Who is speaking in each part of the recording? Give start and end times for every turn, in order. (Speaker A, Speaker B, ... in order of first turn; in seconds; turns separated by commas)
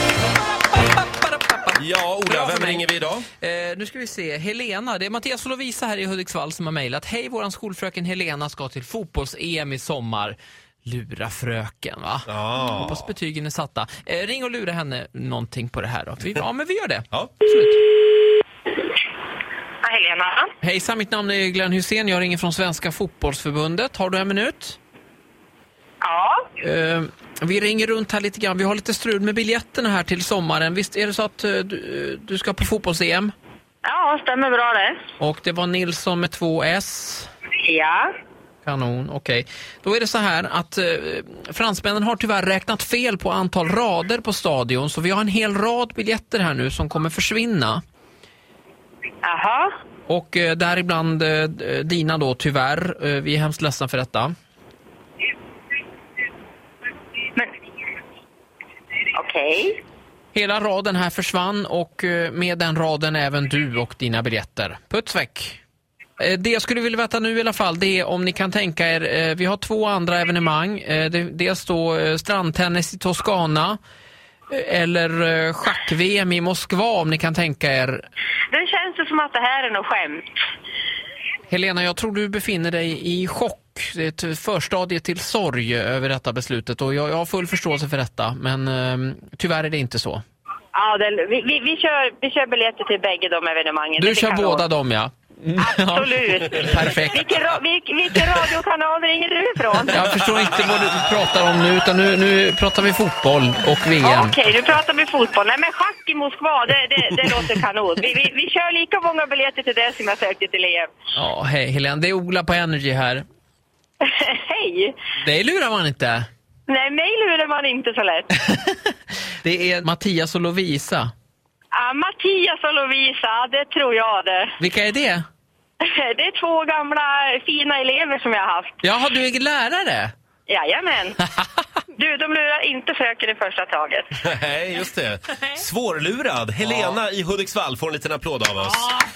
Speaker A: 0.7-2.9, Speaker B: 1.8-3.3, Speaker A: 3.4-17.8, Speaker B: 12.3-13.0, Speaker C: 19.8-20.5, Speaker A: 20.6-24.8, Speaker C: 26.0-26.5, Speaker A: 26.6-33.3, Speaker C: 33.8-35.0, Speaker A: 35.2-37.3, Speaker C: 37.6-38.1, Speaker A: 38.6-47.8, Speaker C: 49.2-49.7, Speaker A: 50.1-54.3, Speaker C: 59.1-59.8, Speaker A: 60.3-65.6, Speaker A: 66.2-73.8, Speaker A: 74.5-78.0, Speaker C: 78.5-80.2, Speaker A: 81.5-90.2, Speaker C: 90.7-94.7, Speaker A: 94.0-97.2, Speaker C: 95.5-100.0, Speaker A: 99.9-104.3, Speaker C: 104.0-110.9, Speaker A: 111.1-113.2, Speaker C: 114.0-114.9, Speaker A: 115.2-116.3, Speaker C: 116.7-118.3, Speaker A: 118.5-118.9, Speaker A: 119.4-121.1, Speaker C: 121.7-124.5, Speaker A: 124.6-125.2, Speaker C: 125.8-128.7, Speaker A: 128.8-130.1, Speaker C: 130.5-131.2, Speaker C: 131.9-134.1, Speaker B: 134.2-138.9, Speaker A: 136.6-137.0